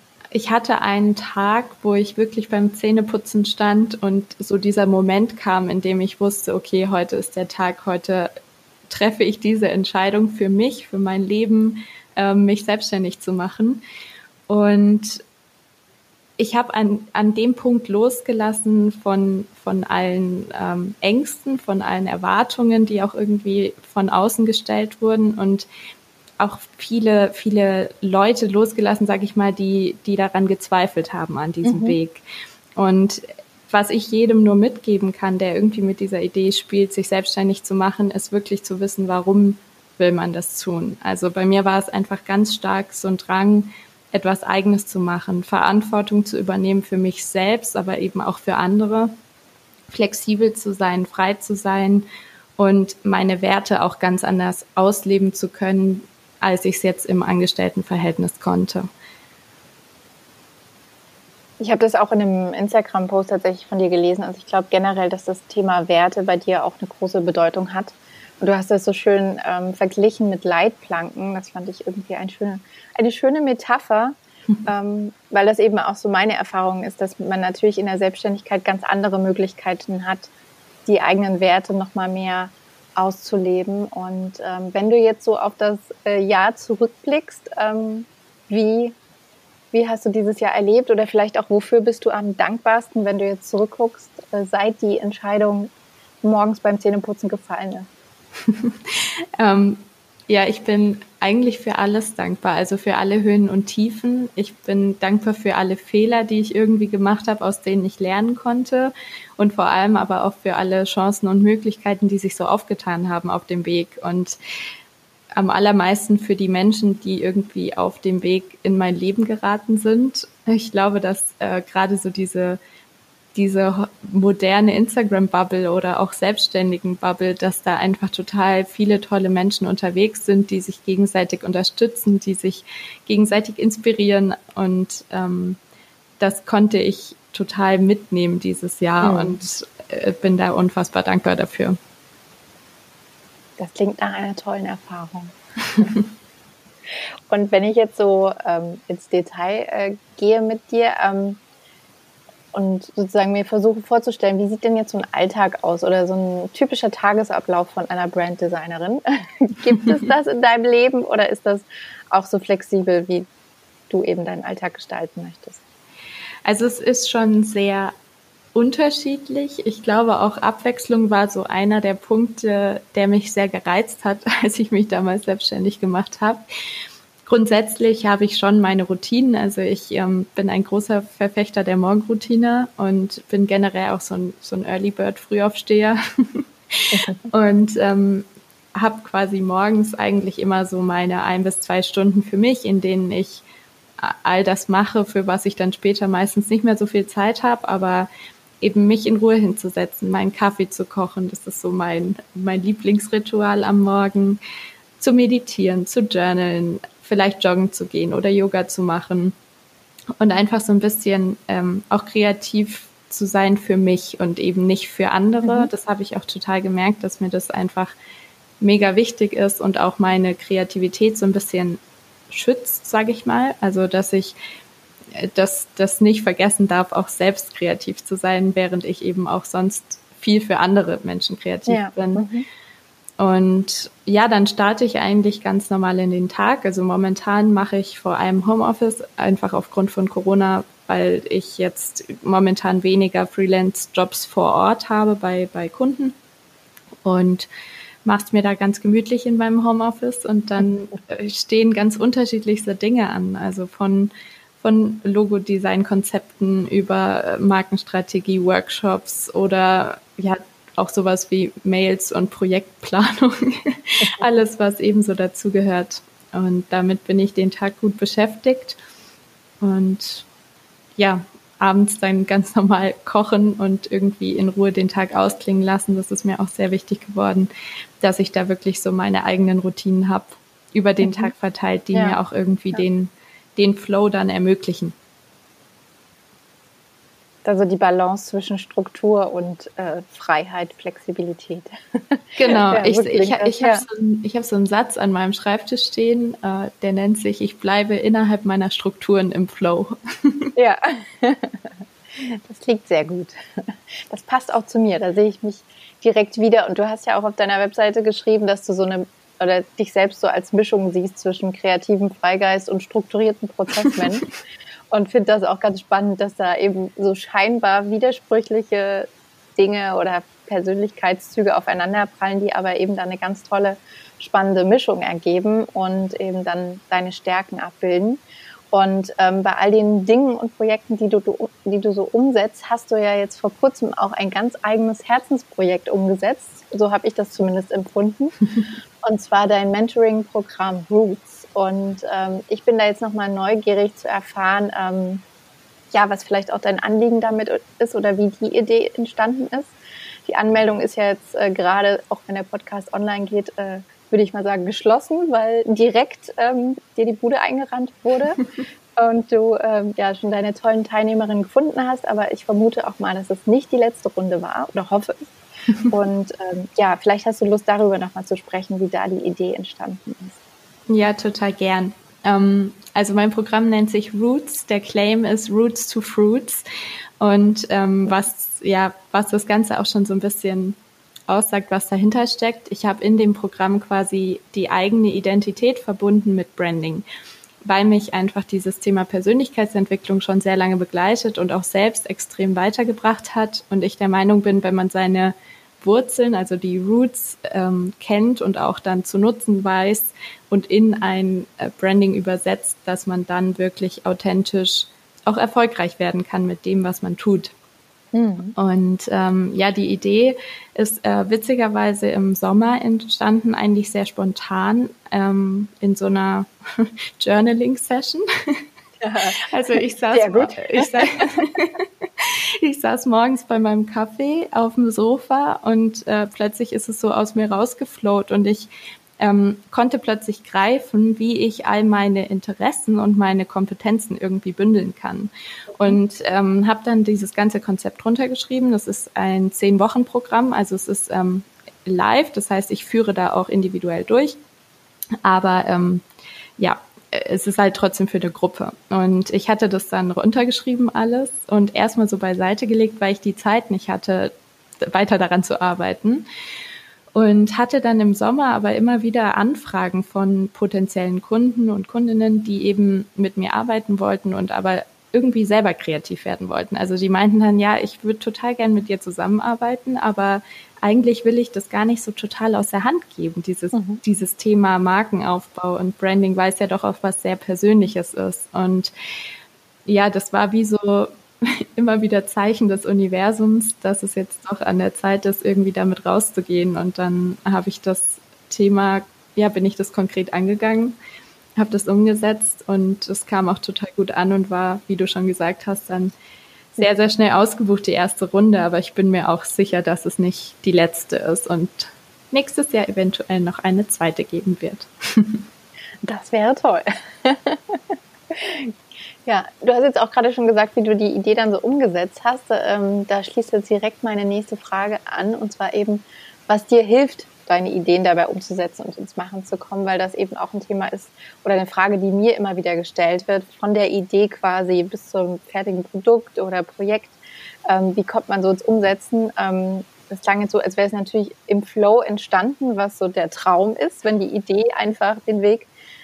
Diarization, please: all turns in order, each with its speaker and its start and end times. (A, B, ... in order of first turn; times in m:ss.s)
0:00.3-0:08.3 A
0:08.9-0:13.8 A
0:14.5-0:15.2 A
0:16.4-0:25.7 A
0:26.4-0:32.2 A
0:31.6-0:32.0 B
0:32.8-0:49.1 A
0:49.9-0:52.0 A
0:52.6-0:58.9 A
1:01.6-1:20.3 B
1:20.9-1:29.0 B
1:29.7-1:35.7 B
1:36.2-1:37.9 B
1:38.4-1:54.4 A
1:55.4-2:02.6 A
2:03.4-2:15.6 A
2:16.2-2:21.8 A
2:19.0-2:19.4 B
2:23.6-2:25.9 B
2:27.3-2:31.4 B
2:32.5-2:43.3 B
2:43.9-2:45.6 B
2:46.4-2:47.9 A
2:48.6-2:56.4 A
2:57.2-3:13.4 A
3:06.9-3:07.2 B
3:14.0-3:18.1 A
3:18.6-3:24.4 A
3:25.0-3:29.4 A
3:30.2-3:38.0 A
3:35.4-3:35.7 B
3:38.6-3:41.8 A
3:42.3-3:44.4 A
3:45.1-3:52.3 A
3:51.7-3:52.5 B
3:53.2-4:06.2 A
4:07.0-4:07.5 A
4:08.0-4:28.8 A
4:29.6-4:30.3 A
4:31.0-4:37.5 A
4:38.0-4:45.0 A
4:41.0-4:41.3 B
4:47.4-4:53.8 B
4:52.4-5:00.5 A
5:00.6-5:01.6 B
5:02.2-5:14.3 B
5:14.9-5:38.4 B
5:39.0-5:45.2 B
5:45.9-5:49.8 B
5:50.3-5:58.4 B
5:59.0-6:05.3 B
6:05.9-6:10.4 B
6:10.9-6:16.6 A
6:17.2-6:20.8 A
6:21.3-6:27.0 A
6:27.6-6:47.5 A
6:48.1-6:48.6 B
6:48.6-6:58.6 A
6:59.0-6:59.4 B
6:59.4-7:24.4 A
7:00.1-7:01.3 B
7:25.2-7:26.0 A
7:26.6-7:36.3 A
7:37.1-7:58.9 A
7:53.7-7:54.0 B
7:59.9-8:11.0 A
8:11.6-8:16.1 A
8:16.8-8:25.4 A
8:26.0-8:28.7 B
8:29.3-8:55.7 B